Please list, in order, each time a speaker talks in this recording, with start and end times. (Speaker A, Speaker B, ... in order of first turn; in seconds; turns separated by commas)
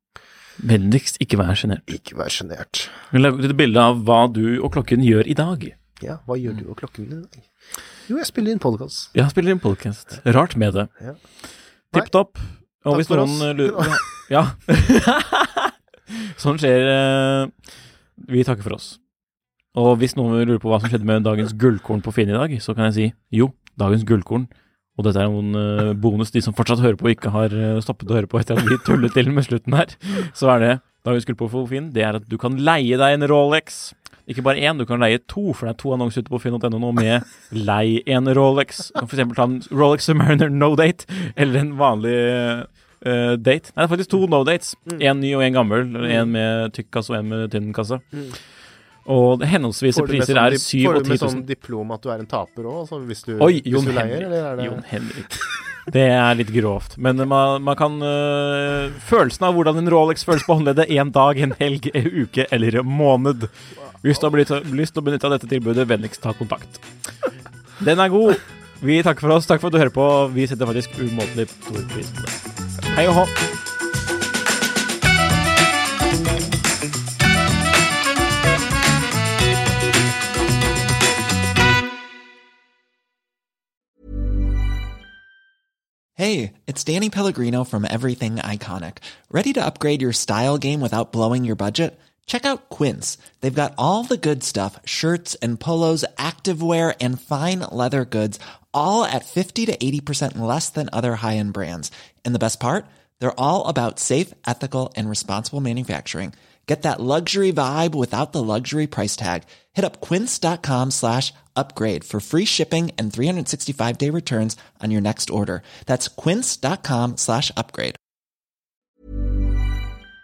Speaker A: 0.6-1.9, Speaker B: 1.9-3.0, Speaker A: 3.1-5.7, Speaker B: 6.0-7.5, Speaker B: 8.1-9.1, Speaker A: 9.1-10.9, Speaker A: 11.9-17.6, Speaker B: 12.9-14.1, Speaker A: 18.2-19.0, Speaker A: 19.7-48.1, Speaker B: 46.0-46.3, Speaker A: 49.0-51.4, Speaker B: 49.9-55.4, Speaker A: 53.4-66.8, Speaker A: 67.8-73.3, Speaker C: 86.2-118.0